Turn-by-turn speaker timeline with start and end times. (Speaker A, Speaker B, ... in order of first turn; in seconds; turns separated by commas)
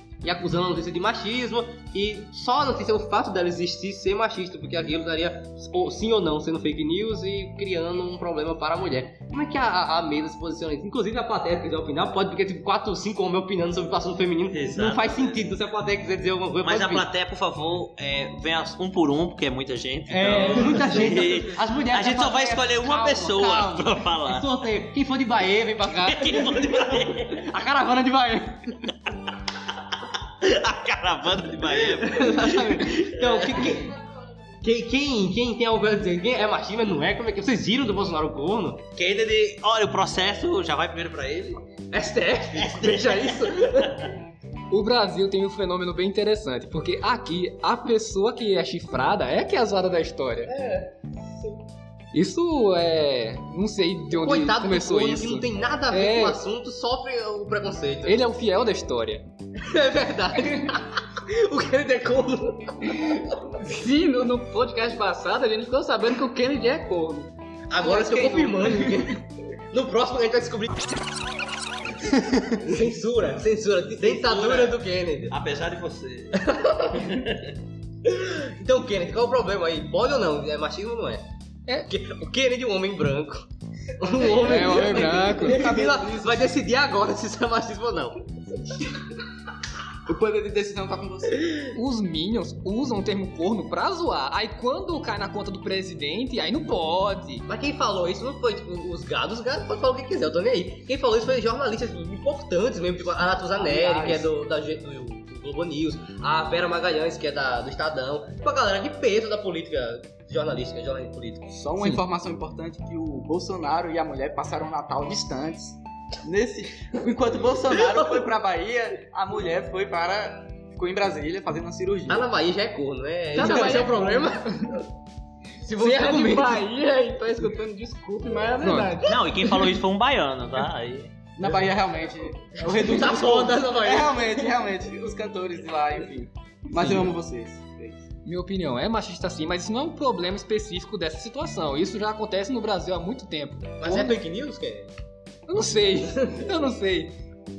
Speaker A: 0.2-17.1, Speaker B: 14.5-15.4, Speaker B: 16.6-24.5, Speaker A: 20.1-28.8, Speaker B: 26.0-27.4, Speaker B: 30.4-33.8, Speaker A: 31.7-34.0, Speaker A: 34.6-38.8, Speaker B: 39.0-41.6, Speaker A: 41.9-43.3, Speaker C: 42.5-43.9, Speaker B: 42.5-44.1, Speaker D: 44.7-50.5, Speaker C: 50.5-50.9, Speaker D: 52.1-56.4, Speaker A: 54.2-58.2, Speaker D: 58.0-59.2, Speaker A: 59.6-63.4, Speaker E: 63.6-67.3, Speaker A: 67.7-71.0, Speaker C: 67.8-68.9, Speaker A: 72.5-75.4, Speaker B: 74.0-74.8, Speaker B: 75.3-77.5, Speaker A: 76.4-77.0, Speaker A: 78.0-81.2, Speaker A: 81.8-88.2, Speaker C: 84.2-86.4, Speaker D: 84.3-85.7, Speaker C: 90.0-91.6, Speaker D: 91.7-97.4, Speaker A: 97.5-111.5, Speaker C: 103.5-104.3, Speaker C: 111.5-122.2, Speaker A: 122.1-124.7, Speaker E: 123.3-124.8, Speaker C: 123.4-123.8, Speaker A: 125.6-126.7, Speaker E: 125.8-129.2, Speaker D: 128.6-129.0, Speaker B: 129.0-131.1, Speaker C: 131.3-138.1, Speaker A: 132.6-134.5, Speaker D: 138.2-144.2, Speaker A: 143.8-144.9, Speaker D: 145.5-147.1